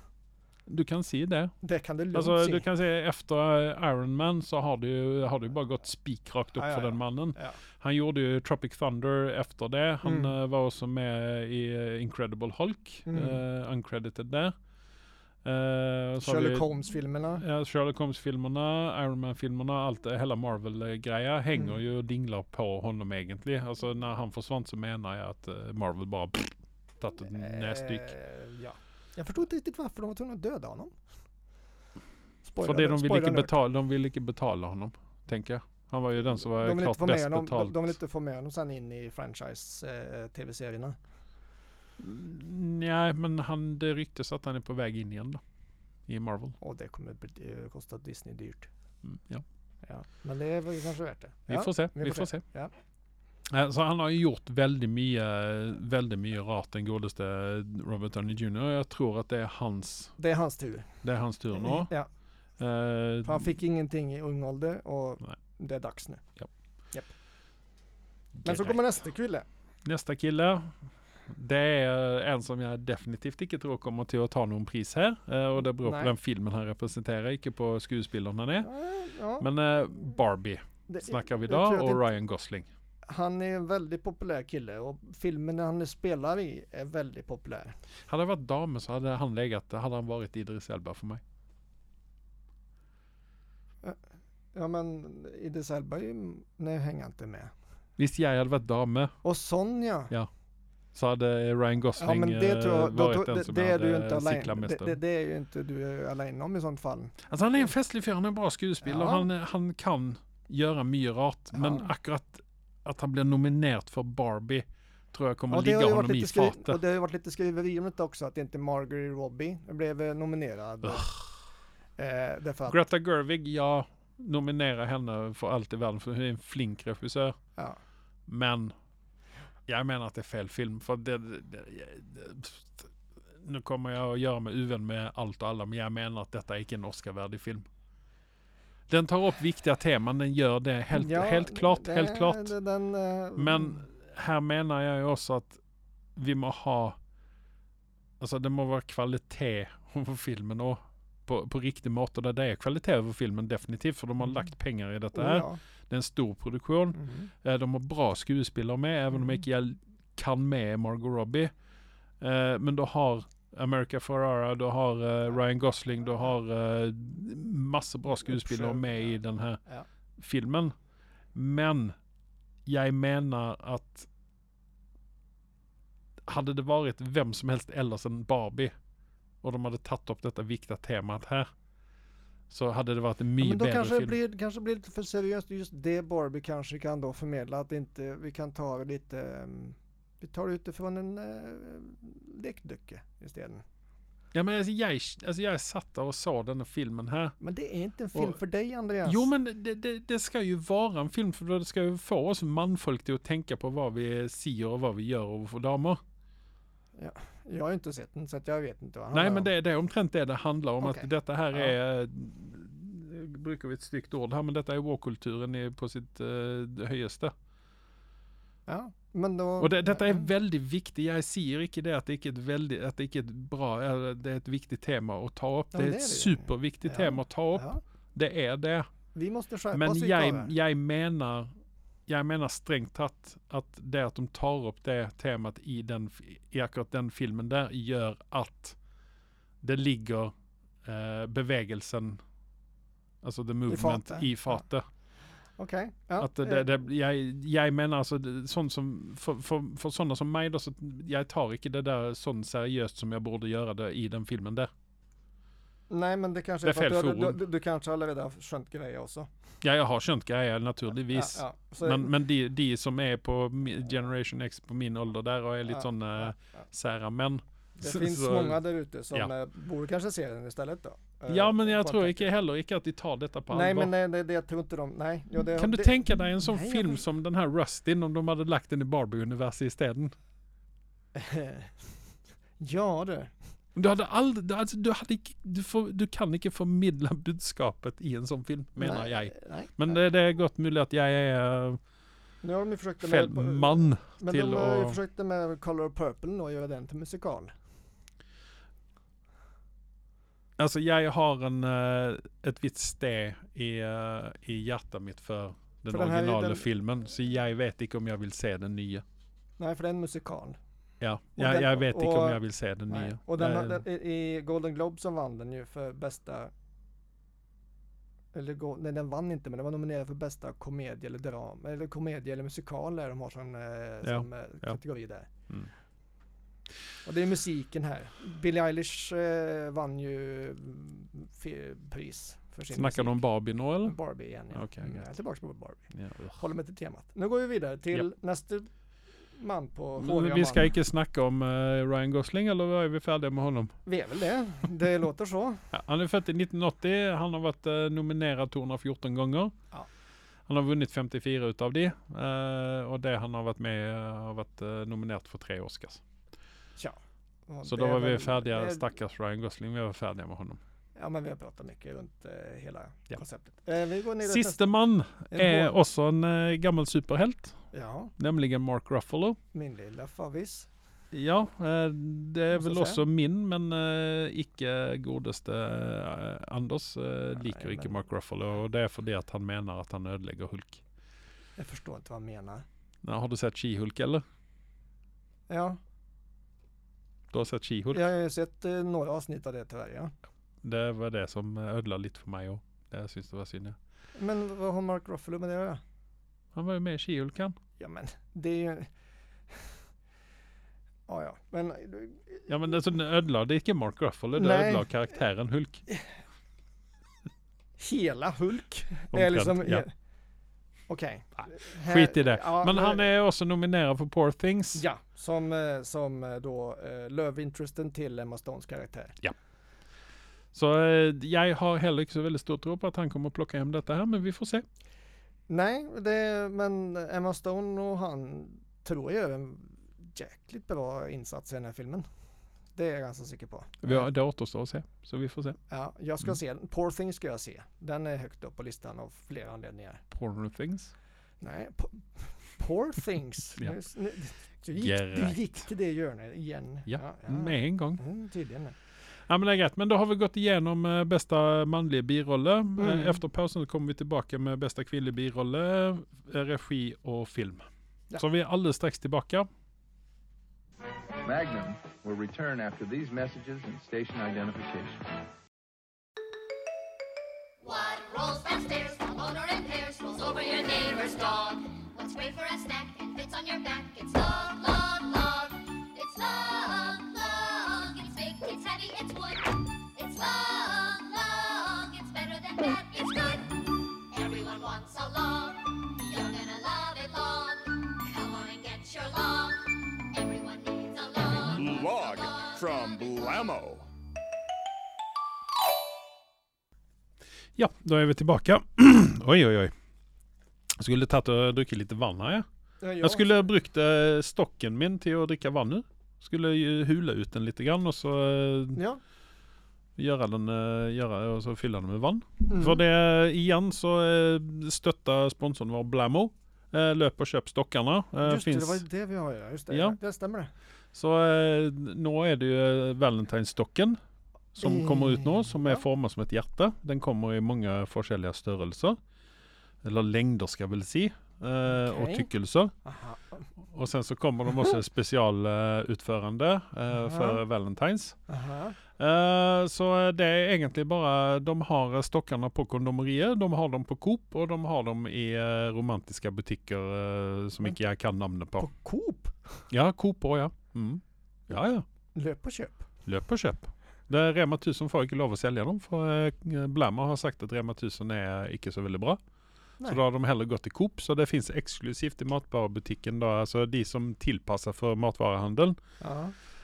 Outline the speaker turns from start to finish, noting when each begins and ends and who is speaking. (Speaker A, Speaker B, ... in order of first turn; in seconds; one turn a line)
Speaker A: 0.7-1.6
Speaker B: 1.6-2.6
Speaker A: 2.1-14.6
Speaker B: 6.5-7.6
Speaker B: 10.0-10.3
Speaker B: 13.1-13.4
Speaker A: 15.4-16.7
Speaker B: 16.2-17.4
Speaker A: 17.4-28.1
Speaker B: 27.2-30.9
Speaker B: 32.4-33.5
Speaker A: 32.6-38.0
Speaker B: 36.6-41.0
Speaker A: 42.0-45.4
Speaker A: 46.1-46.5
Speaker B: 46.6-48.7
Speaker A: 49.0-49.4
Speaker B: 49.8-52.7
Speaker A: 51.5-52.4
Speaker A: 53.5-60.1
Speaker B: 60.2-60.9
Speaker A: 61.0-61.9
Speaker B: 61.5-62.1
Speaker A: 62.6-63.5
Speaker B: 63.2-66.2
Speaker A: 68.4-68.9
Speaker B: 68.4-69.5
Speaker A: 69.8-70.7
Speaker A: 71.3-78.7
Speaker B: 75.8-76.1
Speaker B: 78.6-79.5
Speaker A: 79.4-82.7
Speaker B: 80.9-82.1
Speaker B: 83.1-87.8
Speaker A: 88.1-91.2
Speaker B: 94.5-97.5
Speaker A: 98.0-99.2
Speaker B: 99.2-100.1
Speaker A: 100.9-105.0
Speaker B: 102.0-107.1
Speaker A: 107.3-116.8
Speaker B: 108.8-109.3
Speaker B: 111.5-111.9
Speaker B: 115.5-121.1
Speaker A: 120.8-121.2
Speaker B: 122.0-122.8
Speaker A: 122.7-127.4
Speaker A: 128.3-128.7
Speaker A: 129.7-137.7
Speaker A: 138.9-142.6
Speaker B: 140.9-143.8
Speaker A: 143.4-145.6
Speaker A: 146.2-146.9
Speaker A: 148.2-161.5
Speaker B: 155.1-155.6
Speaker B: 156.9-157.3
Speaker A: 162.2-169.6
Speaker B: 168.3-169.1
Speaker A: 170.2-170.7
Speaker A: 171.3-171.9
Speaker A: 172.7-174.1
Speaker A: 176.3-178.7
Speaker A: 179.4-181.5
Speaker A: 182.5-184.2
Speaker B: 183.4-193.6
Speaker A: 194.3-197.4
Speaker B: 197.4-199.3
Speaker A: 199.0-206.0
Speaker B: 207.0-209.5
Speaker A: 209.1-217.3
Speaker B: 210.8-211.7
Speaker B: 218.7-220.3
Speaker A: 219.6-228.9
Speaker B: 225.7-227.8
Speaker B: 229.1-230.5
Speaker A: 229.7-231.5
Speaker A: 232.1-238.8
Speaker A: 239.6-240.3
Speaker A: 240.8-242.2
Speaker A: 243.2-244.9
Speaker B: 243.7-244.6
Speaker B: 245.6-246.7
Speaker A: 246.2-254.7
Speaker B: 255.9-259.3
Speaker A: 256.6-257.4
Speaker A: 259.6-268.6
Speaker B: 261.1-262.1
Speaker B: 265.7-266.6
Speaker B: 267.8-272.2
Speaker A: 271.3-273.9
Speaker B: 273.5-277.0
Speaker A: 275.6-280.1
Speaker B: 281.1-281.9
Speaker B: 282.6-283.3
Speaker A: 283.7-291.8
Speaker B: 288.8-290.0
Speaker B: 292.4-297.5
Speaker A: 293.0-295.0
Speaker A: 300.6-309.0
Speaker B: 305.9-306.6
Speaker B: 309.6-310.6
Speaker A: 311.0-313.8
Speaker B: 311.4-316.5
Speaker B: 318.3-325.3
Speaker A: 324.0-324.8
Speaker B: 327.1-333.2
Speaker A: 332.7-333.9
Speaker B: 333.8-338.7
Speaker A: 334.5-335.0
Speaker A: 335.9-336.4
Speaker B: 339.4-340.7
Speaker A: 340.0-343.7
Speaker B: 343.9-345.7
Speaker A: 345.7-349.6
Speaker A: 350.5-356.0
Speaker B: 356.8-358.9
Speaker A: 357.6-360.6
Speaker B: 360.9-364.6
Speaker A: 364.2-367.6
Speaker B: 365.3-365.7
Speaker B: 367.7-368.1
Speaker A: 368.2-369.4
Speaker B: 369.5-370.7
Speaker A: 371.1-380.8
Speaker B: 372.5-373.0
Speaker B: 377.4-378.0
Speaker B: 381.6-382.6
Speaker A: 383.0-384.2
Speaker B: 385.5-385.8
Speaker A: 387.3-388.0
Speaker B: 387.9-390.1
Speaker A: 390.6-393.8
Speaker B: 394.1-395.8
Speaker A: 396.6-397.6
Speaker B: 397.8-398.9
Speaker B: 401.1-402.5
Speaker A: 402.5-405.9
Speaker B: 404.4-404.9
Speaker B: 407.8-409.9
Speaker A: 409.1-409.9
Speaker B: 410.9-413.1
Speaker A: 411.4-414.8
Speaker B: 414.7-419.1
Speaker A: 420.5-424.6
Speaker B: 425.5-432.1
Speaker B: 432.7-434.1
Speaker A: 433.8-435.6
Speaker B: 435.7-440.0
Speaker A: 440.1-440.9
Speaker B: 441.4-448.7
Speaker A: 444.8-445.6
Speaker A: 446.9-448.0
Speaker A: 449.3-459.5
Speaker B: 452.8-453.2
Speaker C: 461.2-465.1
Speaker D: 467.6-493.1
Speaker E: 491.4-493.9
Speaker A: 497.6-499.7
Speaker A: 500.7-502.4
Speaker B: 502.8-503.5
Speaker A: 503.0-508.8
Speaker B: 508.8-509.0
Speaker A: 510.0-518.8
Speaker B: 512.5-512.8
Speaker B: 518.2-520.5
Speaker A: 519.7-520.0
Speaker A: 520.9-524.0
Speaker A: 524.6-529.0
Speaker B: 524.6-525.8
Speaker A: 529.8-532.7
Speaker B: 531.7-532.3
Speaker B: 532.8-533.4
Speaker A: 533.7-538.1
Speaker B: 536.9-537.4
Speaker B: 538.3-538.8
Speaker A: 539.0-548.7
Speaker B: 548.6-549.6
Speaker A: 549.7-551.9
Speaker B: 552.1-552.9
Speaker A: 553.1-559.2
Speaker A: 559.9-565.8
Speaker B: 566.0-566.4